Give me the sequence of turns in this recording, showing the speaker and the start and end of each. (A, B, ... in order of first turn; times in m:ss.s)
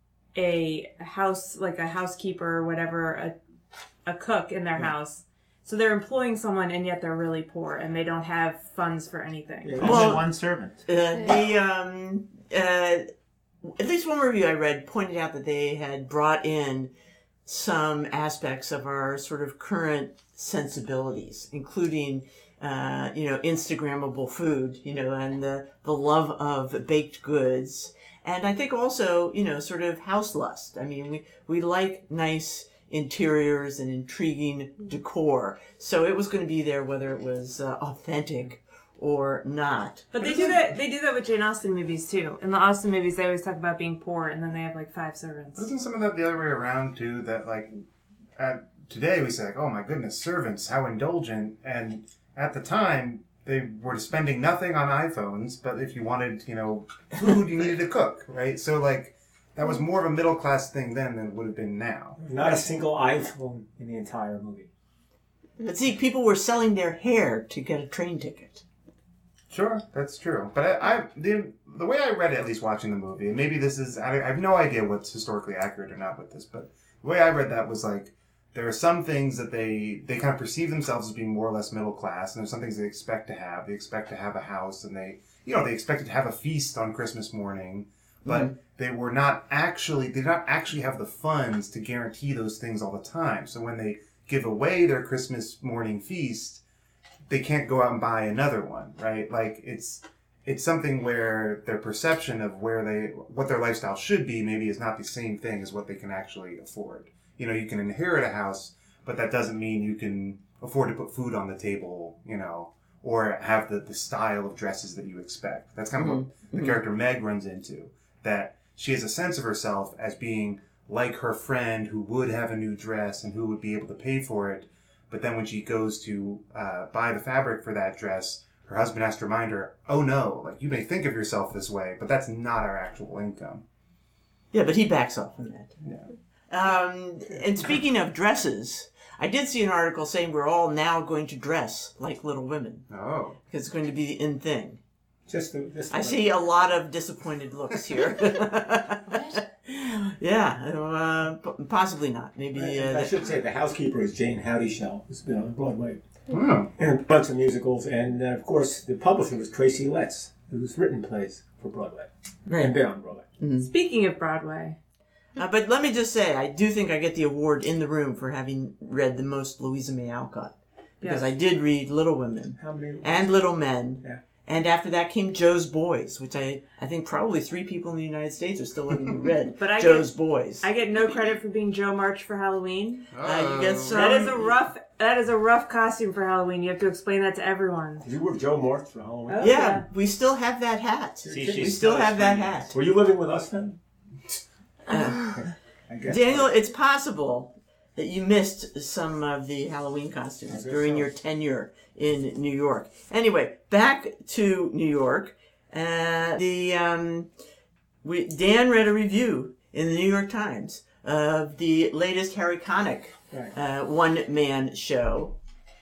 0:00.4-0:03.4 A
0:04.0-0:09.9 A
0:09.6-0:10.3 B
0:09.8-0:10.8 C
0:09.8-0:10.3 D
0:10.8-0:13.1 D
0:13.6-0:16.9 D
0:17.5-0:40.1 D
0:40.1-0:45.7 A
0:45.6-0:47.8 E
0:48.4-1:02.6 E
1:02.2-1:04.7 B
1:05.6-1:08.6 D
1:09.5-1:36.6 E
1:28.2-1:28.6 D
1:37.3-2:13.6 E
1:56.0-1:56.8 D
2:14.5-2:15.8 D
2:16.5-2:22.9 D
2:22.9-2:23.4 E
2:23.5-2:24.8 D
2:25.3-2:26.3 B
2:25.9-2:33.2 D
2:32.5-2:36.0 B
2:36.3-2:36.7 E
2:36.8-2:43.3 B
2:43.4-2:43.7 D
2:43.6-2:44.8 A
2:45.4-3:00.7 D
2:51.0-2:51.3 A
2:52.6-2:53.4 B
2:59.6-3:03.1 A
3:03.1-3:04.1 E
3:03.2-3:04.5 D
3:03.9-3:08.0 A
3:08.0-3:09.6 B
3:09.3-3:09.8 A
3:09.4-3:12.7 D
3:11.2-3:12.1 B
3:11.3-3:12.7 C
3:12.7-3:13.8 B
3:14.9-3:15.4 D
3:14.9-3:16.5 B
3:16.0-3:27.3 D
3:20.5-3:21.1 B
3:28.0-3:35.4 D